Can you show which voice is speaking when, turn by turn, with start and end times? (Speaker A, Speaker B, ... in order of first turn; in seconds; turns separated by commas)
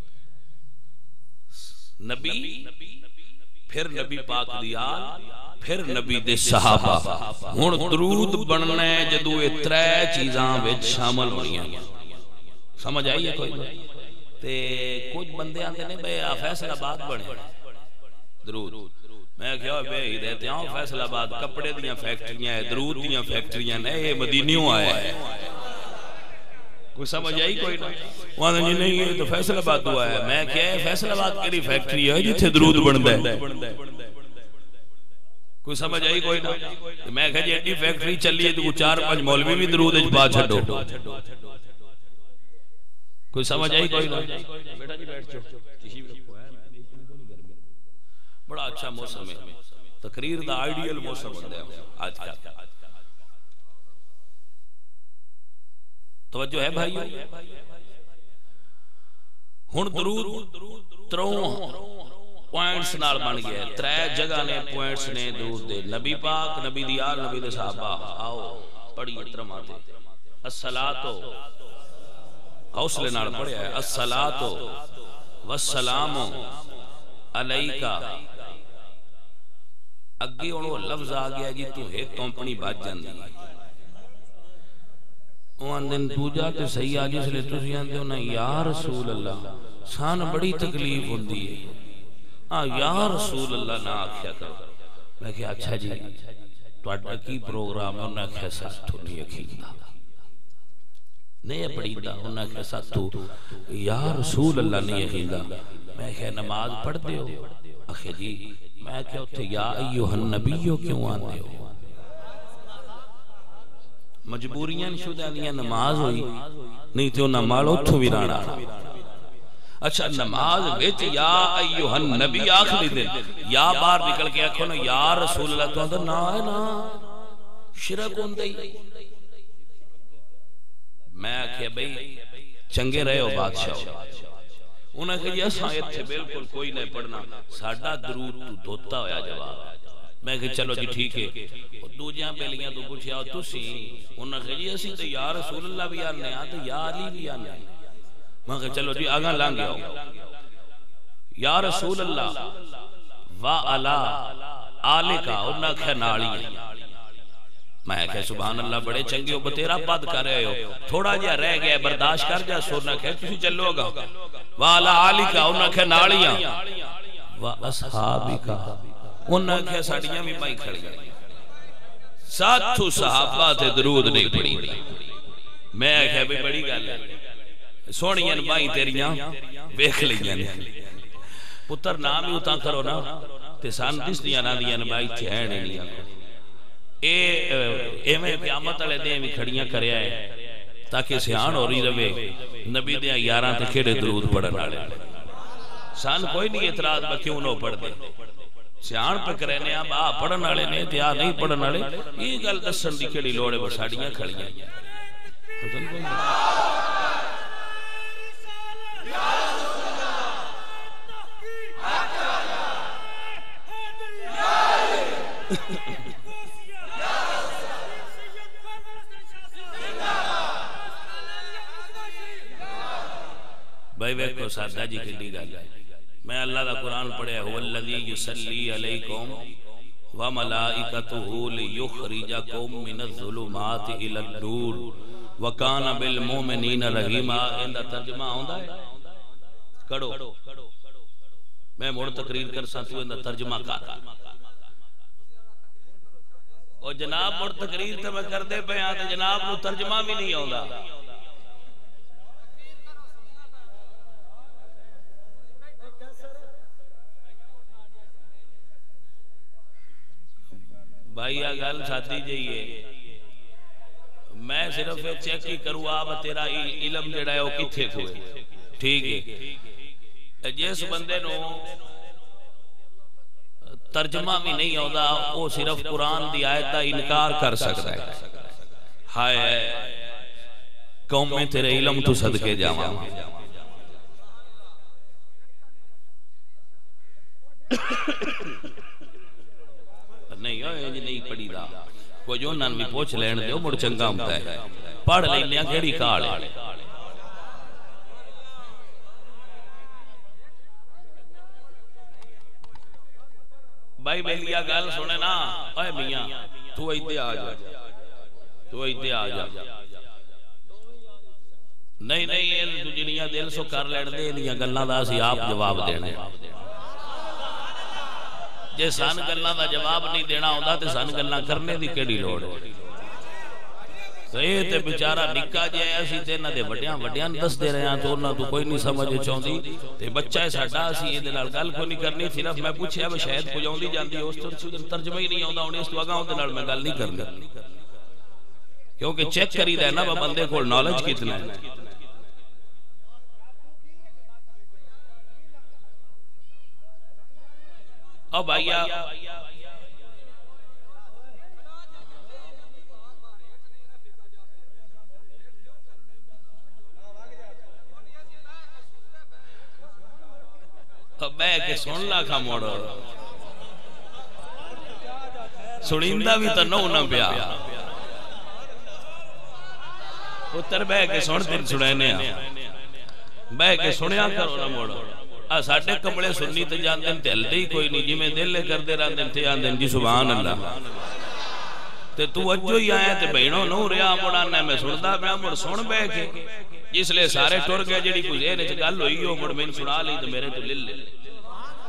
Speaker A: 2.0-3.0, Speaker A: 3.7-11.9, Speaker A: 12.8-17.5, Speaker A: 18.4-25.4, Speaker A: 26.9-33.9, Speaker A: 35.6-41.2, Speaker A: 43.3-47.2, Speaker A: 48.5-52.6, Speaker A: 56.3-57.3, Speaker A: 59.7-69.8, Speaker A: 70.4-71.4, Speaker A: 72.7-74.8, Speaker A: 75.4-76.6, Speaker A: 77.3-78.3, Speaker A: 80.2-83.3, Speaker A: 85.6-91.8, Speaker A: 92.5-96.2, Speaker A: 96.8-99.9, Speaker A: 101.4-111.8, Speaker A: 114.3-119.0, Speaker A: 119.8-127.1, Speaker A: 127.7-129.0, Speaker A: 131.1-134.2, Speaker A: 134.9-147.7, Speaker A: 148.5-150.2, Speaker A: 151.4-152.7, Speaker A: 153.3-156.7, Speaker A: 157.8-171.1, Speaker A: 172.2-175.0, Speaker A: 175.7-177.2, Speaker A: 177.9-181.0, Speaker A: 181.7-186.1, Speaker A: 187.0-190.3, Speaker A: 190.9-195.1, Speaker A: 195.9-198.0, Speaker A: 198.8-204.7, Speaker A: 205.6-206.3, Speaker A: 215.5-215.9, Speaker A: 223.9-225.7, Speaker A: 226.2-229.4, Speaker A: 230.1-238.9, Speaker A: 239.9-240.5, Speaker A: 241.8-244.2, Speaker A: 246.8-250.9, Speaker A: 260.6-262.9, Speaker A: 264.3-269.5, Speaker A: 270.4-271.8, Speaker A: 273.7-278.4, Speaker A: 279.1-280.1, Speaker A: 281.1-283.4, Speaker A: 290.3-296.7, Speaker A: 304.0-307.7, Speaker A: 308.7-309.7, Speaker A: 312.0-316.5, Speaker A: 318.7-322.7, Speaker A: 324.3-337.6, Speaker A: 339.0-341.7, Speaker A: 348.3-349.4, Speaker A: 361.2-363.1, Speaker A: 365.8-367.7, Speaker A: 370.5-372.6, Speaker A: 373.5-380.8, Speaker A: 382.1-391.1